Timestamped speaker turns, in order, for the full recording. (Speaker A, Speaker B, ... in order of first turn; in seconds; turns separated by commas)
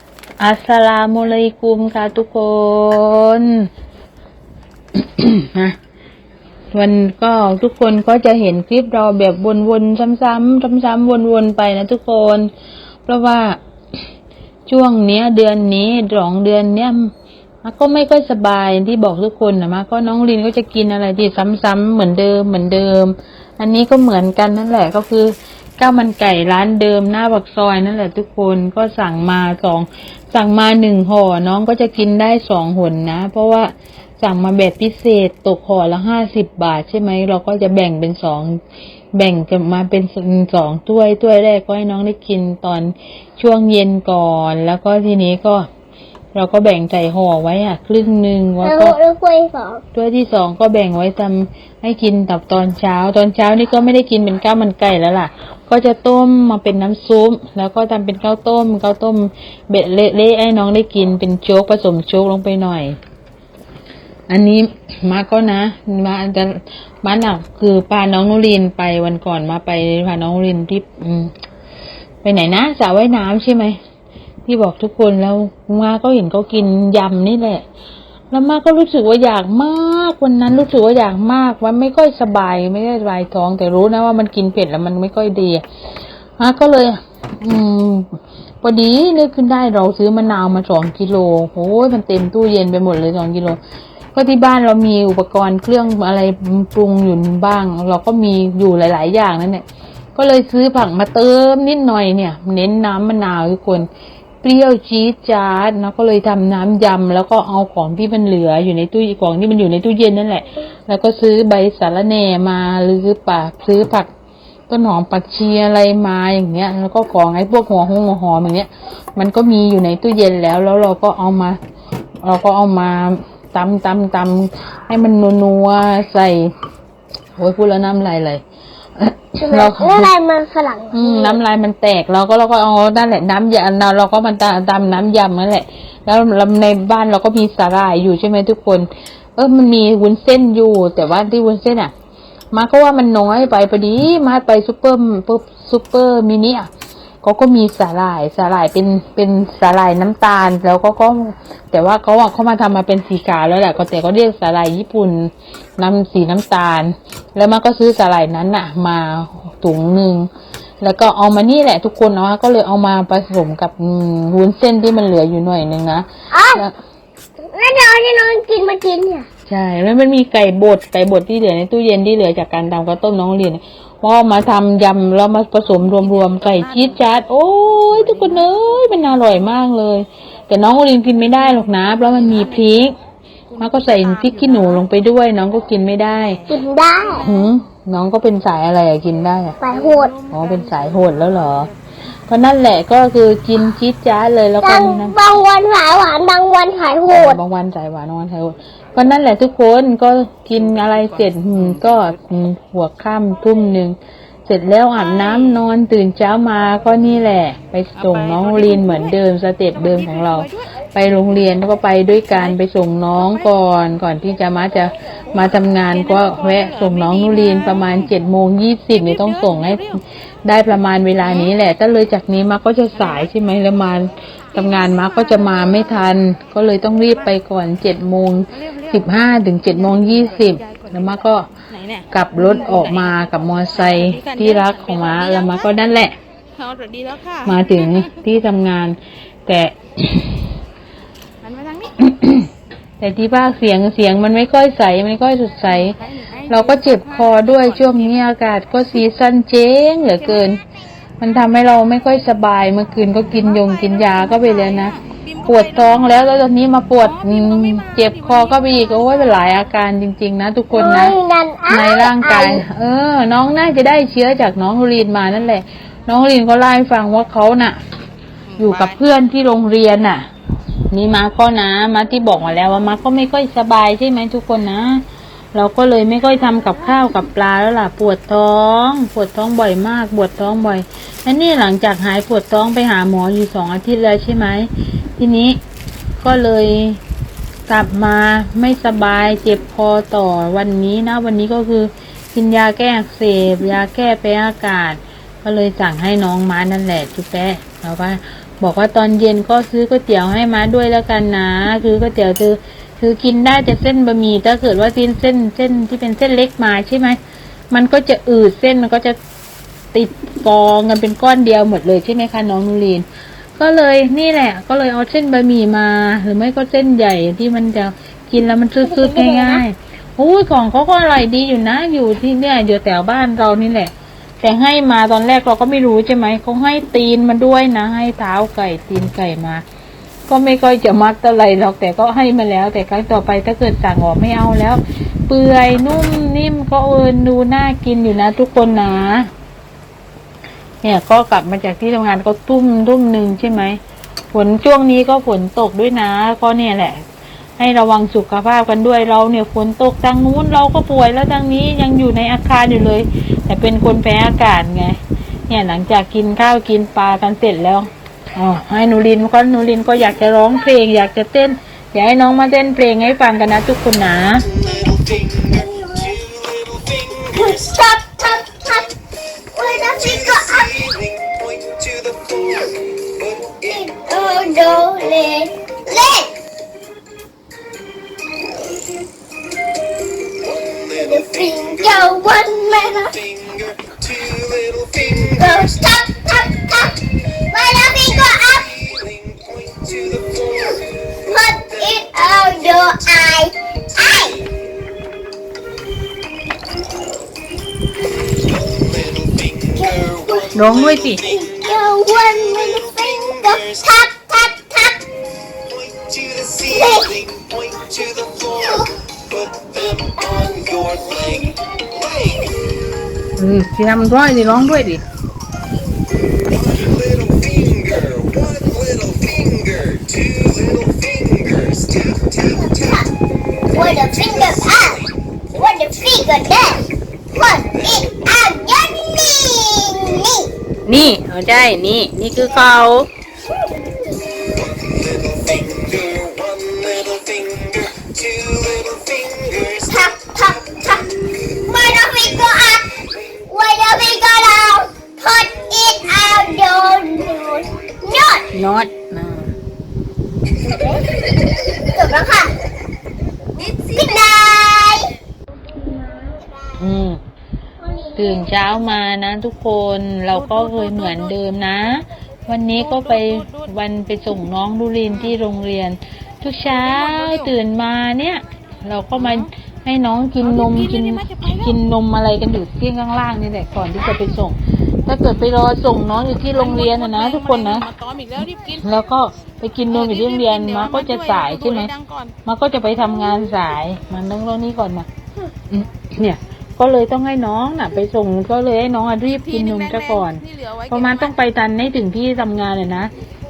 Speaker A: 0.4-3.6, Speaker A: 5.0-5.8, Speaker A: 6.7-12.5, Speaker A: 13.1-13.6, Speaker A: 14.7-17.1, Speaker A: 17.6-38.6, Speaker A: 39.1-45.7, Speaker A: 46.3-49.0, Speaker B: 48.6-49.8, Speaker A: 49.9-62.9, Speaker A: 64.3-71.3, Speaker A: 72.2-73.8, Speaker A: 74.5-77.6, Speaker A: 78.3-85.6, Speaker A: 86.4-88.1, Speaker A: 88.6-93.6, Speaker A: 94.1-99.6, Speaker A: 100.2-103.9, Speaker A: 104.4-114.1, Speaker A: 114.7-121.6, Speaker A: 122.2-126.5, Speaker A: 127.3-128.4, Speaker A: 129.0-130.1, Speaker B: 129.4-131.4, Speaker A: 130.9-141.9, Speaker A: 142.5-146.7, Speaker A: 147.2-160.3, Speaker A: 160.8-166.7, Speaker B: 166.3-166.6, Speaker B: 167.4-169.3, Speaker A: 169.5-182.9, Speaker C: 176.0-177.2, Speaker C: 177.8-178.5, Speaker C: 181.3-182.8, Speaker C: 183.5-184.8, Speaker A: 183.6-186.4, Speaker C: 186.1-187.5, Speaker B: 186.5-187.3, Speaker A: 187.2-189.6, Speaker B: 189.6-190.1, Speaker C: 189.7-191.7, Speaker A: 190.3-191.7, Speaker A: 192.3-195.2, Speaker B: 194.6-197.4, Speaker A: 197.1-203.9, Speaker A: 204.5-219.9, Speaker C: 207.9-209.1, Speaker C: 209.7-210.6, Speaker C: 212.3-212.6, Speaker C: 213.2-213.4, Speaker C: 215.9-218.1, Speaker C: 218.9-220.0, Speaker A: 220.4-231.5, Speaker C: 221.2-221.5, Speaker C: 222.9-223.3, Speaker C: 224.7-225.9, Speaker C: 228.5-231.1, Speaker C: 231.7-233.1, Speaker A: 232.1-236.2, Speaker C: 233.7-235.7, Speaker C: 236.6-238.1, Speaker A: 237.4-240.4, Speaker C: 241.4-242.1, Speaker A: 242.0-242.5, Speaker A: 243.0-245.9, Speaker C: 245.7-248.2, Speaker A: 246.5-250.6, Speaker A: 251.2-261.1, Speaker C: 253.4-256.4, Speaker C: 257.0-259.6, Speaker B: 260.7-262.6, Speaker A: 261.7-267.8, Speaker C: 268.5-269.0, Speaker A: 268.6-270.3, Speaker A: 270.9-285.6, Speaker A: 286.2-287.0, Speaker A: 287.7-307.2, Speaker A: 307.7-309.2, Speaker A: 309.9-313.0, Speaker A: 313.6-329.6, Speaker B: 318.8-319.6, Speaker A: 330.3-339.3, Speaker A: 340.8-343.8, Speaker A: 344.3-347.0, Speaker A: 347.6-355.0, Speaker A: 355.5-364.5, Speaker D: 364.6-365.6, Speaker B: 364.9-366.2, Speaker D: 366.1-367.3, Speaker B: 367.3-368.9, Speaker B: 369.5-370.9, Speaker D: 370.3-372.8, Speaker B: 373.6-376.3, Speaker D: 380.6-381.7, Speaker B: 380.9-383.2, Speaker D: 383.4-385.3, Speaker B: 385.3-387.0, Speaker B: 387.5-388.8, Speaker D: 388.8-391.1, Speaker B: 391.2-394.4, Speaker D: 398.7-401.4, Speaker B: 399.8-405.0, Speaker A: 400.5-401.2, Speaker D: 402.5-403.0, Speaker D: 405.9-408.6, Speaker B: 406.6-407.2, Speaker B: 408.6-408.9, Speaker D: 409.4-411.5, Speaker B: 410.3-410.6, Speaker A: 413.4-415.0, Speaker D: 416.7-422.7, Speaker B: 422.5-423.1, Speaker D: 423.7-424.9, Speaker B: 423.7-430.5, Speaker A: 430.9-433.1, Speaker D: 434.8-439.9, Speaker B: 439.9-448.5, Speaker A: 448.5-449.5, Speaker B: 450.6-451.2, Speaker B: 451.8-452.5, Speaker C: 453.6-454.3, Speaker B: 453.9-455.1, Speaker B: 455.7-456.6, Speaker A: 456.8-457.2, Speaker B: 457.8-458.7, Speaker A: 458.1-477.9, Speaker C: 460.3-461.3, Speaker C: 462.8-463.7, Speaker C: 466.6-467.5, Speaker C: 469.1-469.5, Speaker C: 470.4-471.7, Speaker C: 476.6-479.0, Speaker A: 478.8-481.9, Speaker C: 479.9-482.4, Speaker A: 482.4-485.1, Speaker A: 485.7-493.1, Speaker C: 489.3-491.4